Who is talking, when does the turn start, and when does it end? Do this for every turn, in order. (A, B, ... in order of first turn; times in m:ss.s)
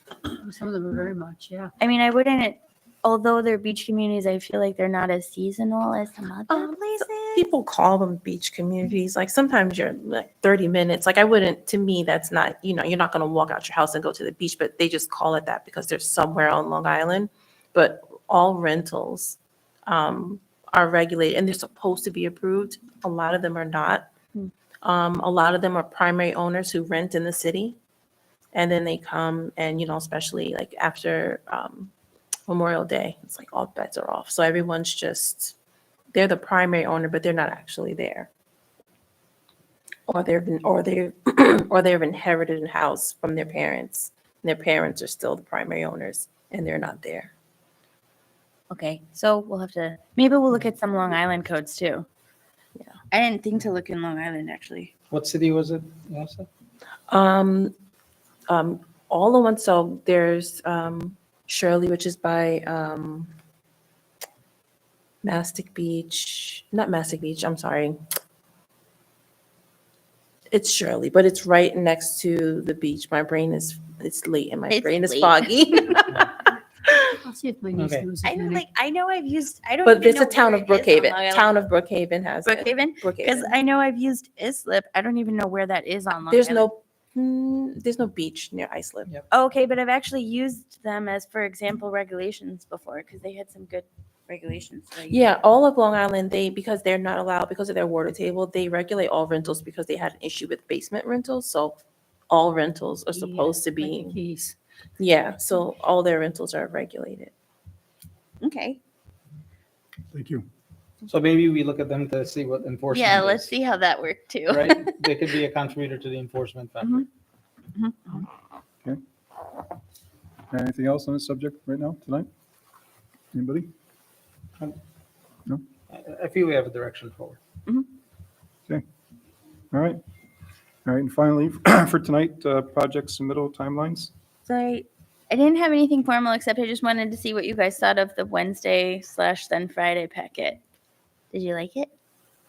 0:00.4-0:01.7 A
0:01.8-0:07.4 B
0:06.5-0:24.1 C
0:24.8-0:27.8 C
0:28.5-0:31.9 C
0:32.5-0:35.5 C
0:36.1-0:38.3 C
0:40.1-0:47.3 C
0:48.7-0:52.0 B
0:53.1-0:54.9 B
0:55.1-0:56.5 D
0:57.1-0:57.7 C
0:58.5-1:03.3 C
1:05.2-1:08.0 C
1:10.5-1:16.2 C
1:14.7-1:15.4 B
1:17.2-1:18.6 A
1:17.8-1:18.1 D
1:18.2-1:21.5 B
1:19.8-1:23.5 C
1:22.4-1:26.7 B
1:26.3-1:29.1 C
1:29.3-1:35.2 B
1:35.1-1:44.2 C
1:43.1-1:44.6 A
1:45.0-1:47.3 C
1:48.4-1:48.8 B
1:50.1-1:50.4 E
1:51.1-1:53.5 D
1:52.9-1:54.8 B
1:54.5-1:57.0 D
1:57.7-1:58.2 B
2:00.5-2:02.3 E
2:03.3-2:03.7 E
2:05.9-2:07.4 D
2:09.7-2:10.0 E
2:10.8-2:14.1 E
2:14.4-2:20.6 B
2:21.3-2:21.9 B